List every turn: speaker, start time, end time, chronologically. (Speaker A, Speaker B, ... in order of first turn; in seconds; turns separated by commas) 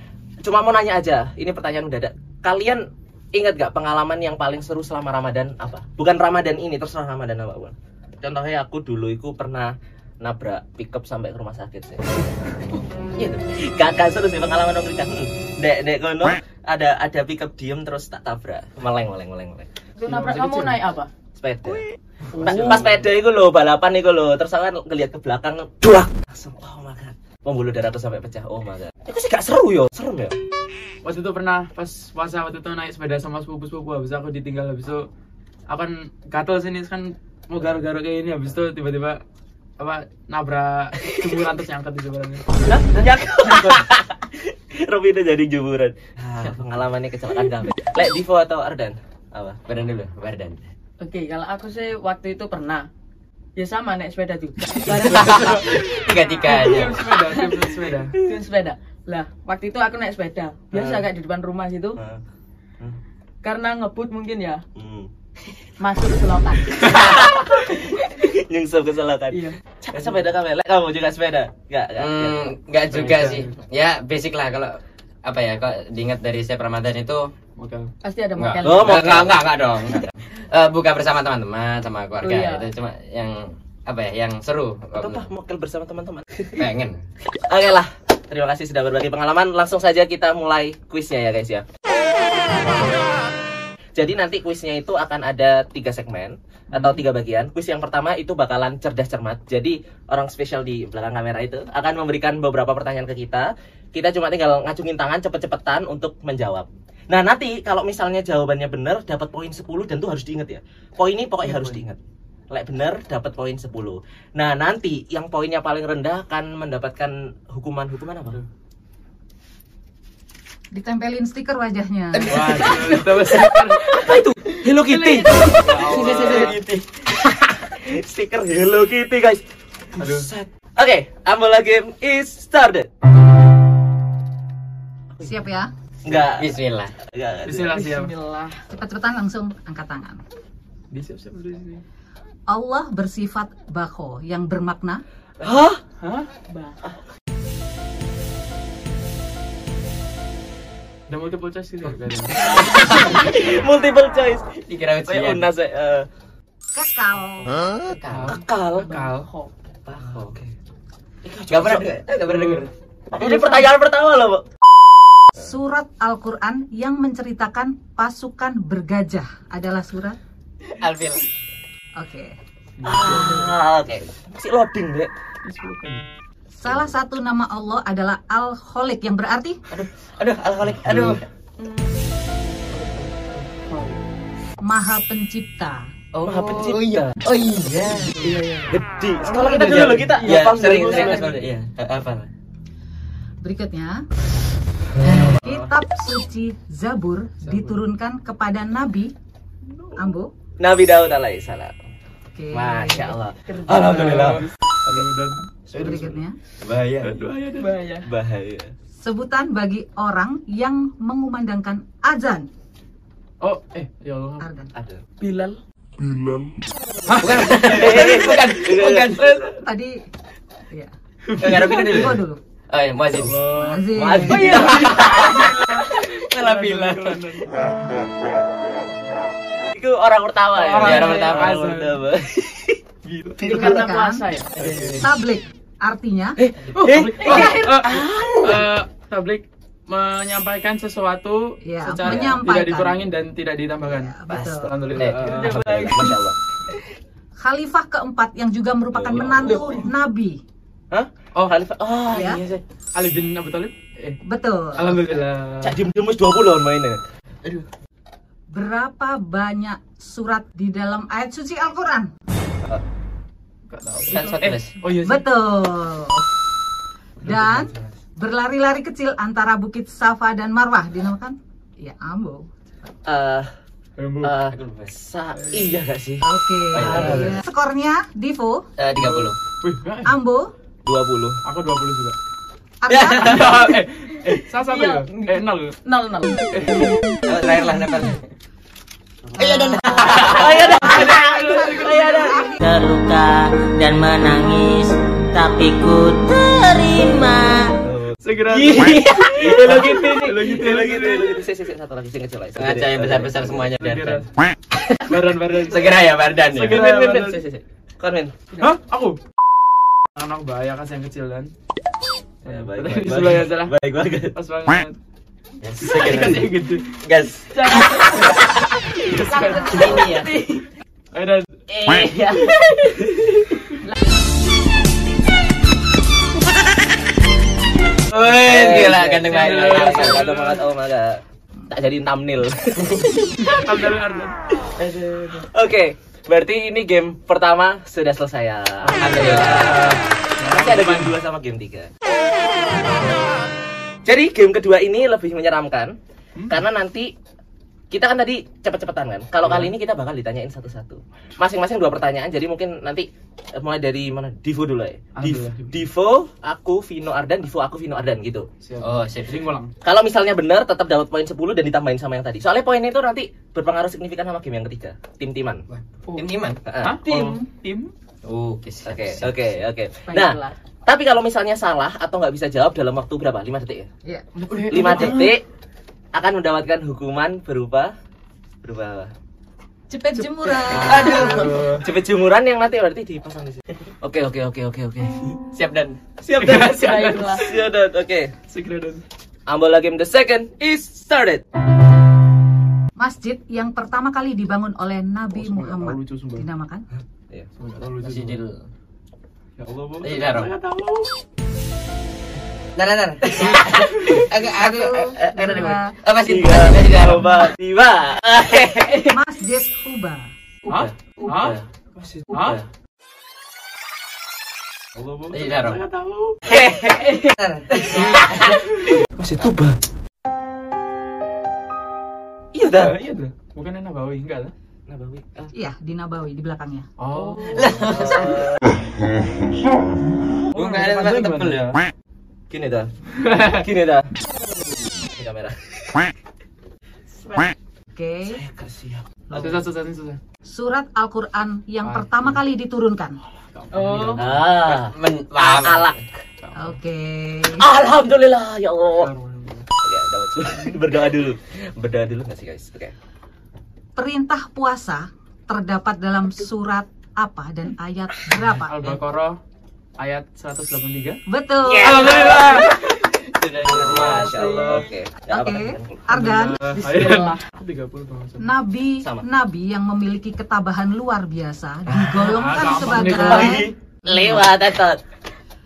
Speaker A: 0.4-12.1, Speaker A: 13.2-19.7, Speaker B: 20.0-21.1, Speaker C: 20.1-20.8, Speaker A: 21.4-21.8, Speaker C: 22.3-23.1, Speaker A: 22.4-30.3, Speaker C: 31.0-35.1, Speaker C: 35.7-39.2, Speaker C: 39.8-42.7, Speaker A: 42.7-49.6, Speaker D: 49.6-50.6, Speaker B: 51.0-52.9, Speaker B: 53.5-55.6, Speaker D: 55.0-57.0, Speaker C: 55.1-55.6, Speaker B: 56.4-57.5, Speaker C: 56.5-58.1, Speaker B: 58.2-62.0, Speaker A: 60.7-61.0, Speaker B: 63.4-64.6, Speaker A: 64.8-65.1, Speaker B: 65.8-67.2, Speaker A: 66.9-72.5, Speaker B: 69.3-69.5, Speaker D: 72.0-77.3, Speaker C: 72.9-73.6, Speaker C: 77.6-77.9, Speaker B: 78.0-79.2, Speaker D: 78.4-85.2, Speaker A: 78.6-79.4, Speaker B: 82.2-82.7, Speaker A: 84.9-86.6, Speaker D: 86.6-87.0, Speaker A: 87.5-91.6, Speaker A: 94.0-112.0, Speaker C: 96.7-97.0, Speaker C: 111.4-111.8, Speaker A: 112.5-118.4, Speaker E: 120.7-122.3, Speaker D: 122.3-122.9, Speaker C: 122.3-124.2, Speaker A: 123.9-125.4, Speaker D: 124.0-124.5, Speaker C: 125.6-126.6, Speaker D: 125.6-126.8, Speaker A: 126.0-126.5, Speaker A: 127.8-129.4, Speaker A: 130.0-132.9, Speaker C: 130.0-130.3, Speaker E: 135.2-135.7, Speaker A: 136.0-136.5, Speaker D: 136.1-136.9, Speaker A: 137.1-137.8, Speaker C: 137.4-138.1, Speaker B: 137.7-138.6, Speaker E: 138.7-140.2, Speaker C: 140.9-141.8, Speaker E: 142.5-145.0, Speaker A: 145.4-145.8, Speaker C: 146.0-146.3, Speaker B: 146.5-146.8, Speaker C: 151.1-152.4, Speaker D: 152.6-153.2, Speaker A: 152.7-154.5, Speaker D: 154.7-155.5, Speaker A: 155.1-156.1, Speaker E: 156.7-157.6, Speaker D: 157.9-158.3, Speaker C: 158.1-159.3, Speaker A: 158.3-159.0, Speaker B: 158.8-159.5, Speaker D: 159.9-160.3, Speaker A: 160.0-160.5, Speaker A: 161.2-161.9, Speaker D: 161.5-162.7, Speaker A: 163.1-164.4, Speaker B: 163.2-163.7, Speaker E: 165.4-170.2, Speaker D: 170.8-171.3, Speaker E: 172.0-172.3, Speaker C: 172.8-173.5, Speaker A: 172.8-175.1, Speaker C: 175.4-176.0, Speaker E: 176.6-179.6, Speaker D: 179.7-181.2, Speaker B: 181.6-181.9, Speaker C: 182.7-183.1, Speaker B: 183.7-184.0, Speaker E: 184.6-185.9, Speaker D: 186.1-188.6, Speaker A: 186.2-187.2, Speaker C: 188.1-188.4, Speaker A: 188.7-191.3, Speaker C: 189.2-191.1, Speaker D: 189.6-192.3, Speaker E: 193.4-194.0, Speaker A: 195.0-195.4, Speaker E: 195.0-199.1, Speaker C: 197.4-197.8, Speaker C: 199.7-200.1, Speaker E: 199.9-200.3, Speaker A: 200.6-201.7, Speaker E: 202.3-203.2, Speaker A: 202.5-205.1, Speaker B: 203.5-203.8, Speaker C: 203.7-205.4, Speaker A: 205.7-206.1, Speaker E: 205.8-206.3, Speaker A: 206.6-207.3, Speaker C: 207.0-207.7, Speaker B: 207.5-208.1, Speaker A: 208.1-208.7, Speaker E: 209.0-212.5, Speaker C: 213.4-214.4, Speaker E: 214.4-214.7, Speaker A: 214.7-215.0, Speaker B: 215.2-215.6, Speaker C: 217.1-218.2, Speaker D: 217.2-219.4, Speaker A: 217.6-219.3, Speaker C: 219.2-219.5, Speaker E: 219.5-220.0, Speaker C: 221.2-222.0, Speaker D: 221.4-223.4, Speaker E: 221.7-222.4, Speaker A: 223.2-225.5, Speaker C: 223.3-227.7, Speaker E: 223.5-224.6, Speaker B: 224.3-225.2, Speaker D: 224.7-227.3, Speaker A: 229.7-232.8, Speaker C: 230.5-232.0, Speaker D: 230.7-231.5, Speaker C: 233.0-233.6, Speaker B: 233.4-234.6, Speaker E: 233.4-234.2, Speaker C: 234.6-235.0, Speaker A: 234.6-235.0, Speaker E: 235.0-236.4, Speaker A: 236.4-238.6, Speaker D: 236.6-237.4, Speaker C: 236.8-246.1, Speaker E: 241.6-243.0, Speaker E: 243.9-244.7, Speaker D: 244.9-245.2, Speaker A: 244.9-246.3, Speaker B: 245.2-246.2, Speaker E: 247.4-250.4, Speaker A: 249.0-249.4, Speaker D: 249.2-249.8, Speaker A: 250.9-252.4, Speaker E: 252.1-252.4, Speaker C: 252.1-254.2, Speaker E: 254.2-254.9, Speaker C: 254.8-255.7, Speaker A: 255.6-257.0, Speaker E: 258.5-262.1, Speaker C: 263.7-265.2, Speaker D: 264.1-264.7, Speaker E: 264.1-264.5, Speaker E: 265.0-266.2, Speaker E: 267.2-272.5, Speaker A: 267.3-267.9, Speaker A: 273.0-273.5, Speaker C: 274.0-274.3, Speaker A: 274.2-276.2, Speaker D: 274.5-274.9, Speaker C: 275.3-275.7, Speaker E: 276.2-278.6, Speaker D: 276.7-277.4, Speaker A: 276.7-277.3, Speaker D: 278.8-279.4, Speaker C: 279.0-280.1, Speaker E: 280.1-280.5, Speaker A: 280.9-281.4, Speaker C: 281.4-282.1, Speaker E: 282.8-283.4, Speaker D: 282.9-283.7, Speaker C: 283.1-285.8, Speaker B: 284.6-286.4, Speaker C: 286.5-286.9, Speaker D: 287.3-288.2, Speaker C: 289.2-292.3, Speaker D: 289.7-290.6, Speaker A: 290.2-292.4, Speaker E: 290.8-292.6, Speaker F: 292.6-297.7, Speaker A: 297.8-303.7, Speaker C: 298.2-301.4, Speaker D: 298.5-299.4, Speaker D: 302.6-304.2, Speaker C: 303.7-304.3, Speaker D: 304.7-306.8, Speaker C: 305.0-307.4, Speaker A: 306.7-308.3, Speaker C: 308.6-309.2, Speaker C: 310.1-311.5, Speaker A: 312.4-314.3, Speaker C: 312.4-313.7, Speaker C: 314.3-315.0, Speaker D: 315.7-318.3, Speaker C: 315.8-316.9, Speaker A: 315.9-316.4, Speaker C: 317.5-318.2, Speaker C: 319.0-320.1, Speaker B: 319.2-320.6, Speaker D: 319.8-320.3, Speaker C: 321.1-321.6, Speaker D: 321.8-322.5, Speaker A: 322.0-322.4, Speaker D: 328.1-330.2, Speaker A: 328.2-333.6, Speaker C: 329.2-330.6, Speaker C: 332.9-334.4, Speaker A: 334.8-341.9, Speaker C: 338.8-341.1, Speaker D: 339.0-339.9, Speaker A: 344.0-345.9, Speaker A: 346.5-347.1, Speaker A: 347.9-358.5, Speaker C: 349.4-349.7, Speaker C: 355.1-355.8, Speaker C: 358.6-359.7, Speaker D: 358.8-359.5, Speaker A: 359.8-365.6, Speaker B: 366.1-366.3, Speaker D: 366.1-366.6, Speaker A: 366.6-367.0, Speaker C: 366.8-367.9, Speaker B: 367.0-367.4, Speaker D: 368.2-369.5, Speaker A: 368.9-373.9, Speaker B: 370.1-370.5, Speaker C: 374.4-375.3, Speaker A: 374.7-375.4, Speaker A: 376.1-377.9, Speaker A: 378.6-379.1, Speaker E: 379.9-381.5, Speaker B: 380.5-381.2, Speaker C: 380.7-381.8, Speaker A: 380.7-385.3, Speaker D: 385.5-386.0, Speaker A: 386.2-388.3, Speaker C: 386.4-387.4, Speaker B: 386.8-387.5, Speaker C: 388.5-389.0, Speaker A: 389.5-391.4, Speaker E: 393.0-396.8, Speaker C: 395.3-396.4, Speaker C: 397.6-398.4, Speaker D: 398.0-398.6, Speaker C: 399.6-401.1, Speaker D: 400.0-400.5, Speaker D: 402.8-407.5, Speaker E: 404.5-405.9, Speaker A: 406.2-408.9, Speaker D: 408.3-409.1, Speaker E: 409.1-410.3, Speaker C: 410.6-411.6, Speaker A: 410.7-412.7, Speaker C: 412.3-412.6, Speaker C: 414.9-416.4, Speaker D: 415.3-415.8, Speaker D: 416.5-418.6, Speaker C: 418.0-418.6, Speaker A: 418.1-418.4, Speaker A: 419.2-419.8, Speaker A: 422.5-422.9, Speaker C: 422.7-424.5, Speaker A: 424.9-425.5, Speaker E: 425.5-426.9, Speaker C: 427.0-427.8, Speaker D: 427.1-428.5, Speaker A: 427.9-428.6, Speaker C: 430.5-431.7, Speaker D: 430.5-431.8, Speaker A: 432.5-434.1, Speaker C: 433.2-433.6, Speaker A: 435.2-435.9, Speaker E: 437.9-438.4, Speaker A: 438.3-439.6, Speaker C: 439.3-440.2, Speaker E: 440.4-443.2, Speaker C: 441.8-442.4, Speaker C: 443.4-444.3, Speaker B: 443.7-444.2, Speaker A: 444.2-446.0, Speaker D: 444.7-445.9, Speaker C: 446.4-446.8, Speaker E: 446.6-447.6, Speaker A: 447.6-449.1, Speaker C: 449.0-449.6, Speaker A: 449.8-452.9, Speaker E: 453.9-458.7, Speaker C: 458.6-459.4, Speaker C: 460.0-461.2, Speaker E: 461.3-462.0, Speaker D: 461.8-462.8, Speaker C: 461.8-462.7, Speaker A: 462.0-462.4, Speaker D: 463.3-464.5, Speaker A: 463.6-466.0, Speaker B: 463.8-464.8, Speaker E: 465.2-466.6, Speaker C: 466.1-468.5, Speaker B: 466.7-467.4, Speaker E: 468.4-474.4, Speaker A: 471.9-475.0, Speaker C: 472.1-473.7